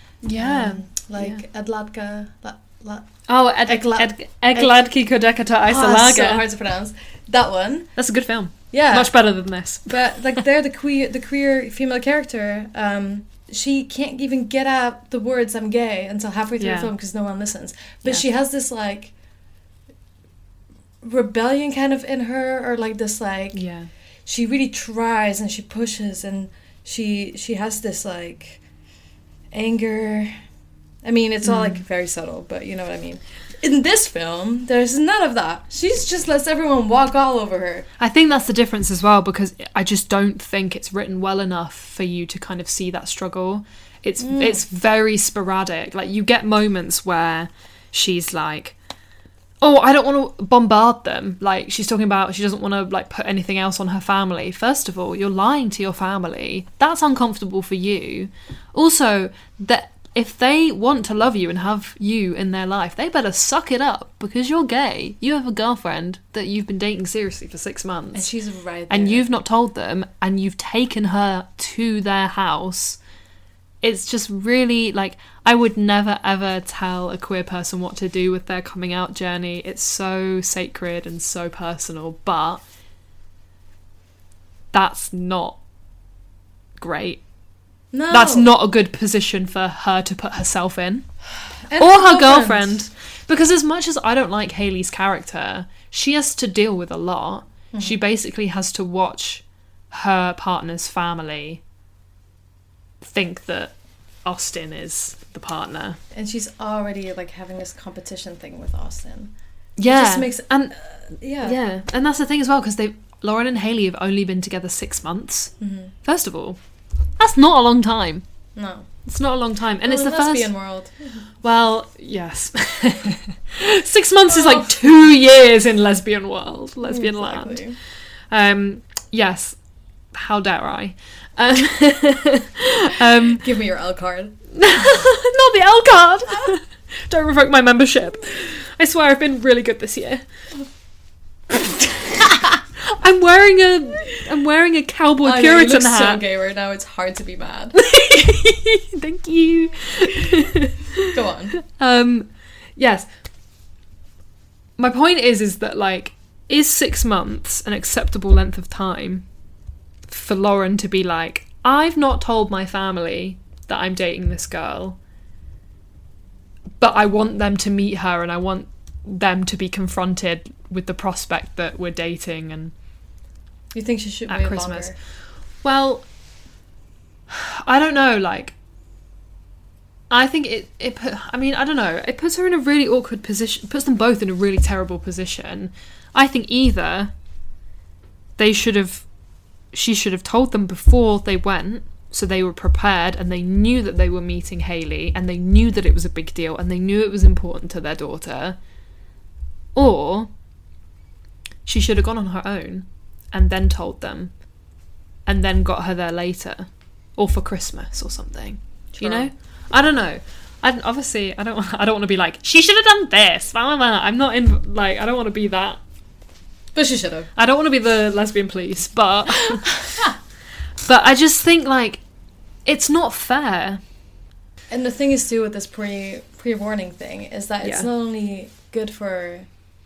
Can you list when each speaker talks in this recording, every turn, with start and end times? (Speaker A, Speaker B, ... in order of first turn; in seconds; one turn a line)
Speaker A: 0.2-1.4
Speaker B: 0.3-3.1
Speaker A: 3.3-6.4
Speaker B: 3.6-4.8
Speaker B: 5.7-7.9
Speaker A: 8.0-9.9
Speaker B: 8.7-9.1
Speaker B: 9.9-19.1
Speaker A: 16.6-16.9
Speaker B: 21.0-23.6
Speaker A: 23.5-23.9
Speaker B: 24.3-28.6
Speaker B: 29.5-30.4
Speaker B: 31.0-37.9
Speaker A: 31.4-31.8
Speaker A: 38.0-48.7
Speaker B: 44.2-44.6
Speaker A: 49.6-68.3
Speaker B: 68.1-69.2
Speaker A: 68.9-73.0
Speaker A: 73.8-82.6
Speaker A: 84.7-85.6
Speaker A: 86.8-87.2
Speaker B: 87.9-88.5
Speaker A: 88.1-91.1
Speaker B: 91.6-92.7
Speaker A: 91.8-101.6
Speaker B: 97.7-98.0
Speaker A: 103.0-103.7
Speaker A: 104.2-106.0
Speaker B: 106.1-109.3
Speaker A: 109.8-110.7
Speaker B: 109.8-111.6
Speaker A: 111.4-115.5
Speaker B: 115.6-115.9
Speaker A: 116.0-116.6
Speaker A: 117.2-118.2
Speaker B: 118.5-118.8
Speaker A: 119.0-120.5
Speaker B: 119.8-121.2
Speaker A: 121.4-127.6
Speaker B: 124.3-124.7
Speaker B: 126.8-127.8
Speaker A: 128.3-129.6
Speaker A: 130.1-133.4
Speaker B: 133.3-134.4
Speaker A: 134.5-140.2
Speaker A: 142.2-146.2
Speaker B: 145.2-147.8
Speaker A: 147.7-153.1
Speaker B: 151.1-151.6
Speaker A: 154.8-159.2
Speaker A: 160.1-165.0
Speaker A: 166.8-172.7
Speaker B: 173.7-174.9
Speaker A: 174.3-174.9
Speaker A: 175.6-176.0
Speaker A: 177.3-178.5
Speaker A: 180.1-187.1
Speaker A: 188.4-189.1
Speaker A: 189.7-198.6
Speaker A: 199.7-200.3
Speaker A: 201.6-204.3
Speaker A: 205.2-215.8
Speaker B: 208.9-209.3
Speaker B: 216.7-217.3
Speaker A: 217.3-219.7
Speaker B: 219.5-220.1
Speaker A: 220.9-222.0
Speaker A: 222.7-223.8
Speaker B: 224.7-229.4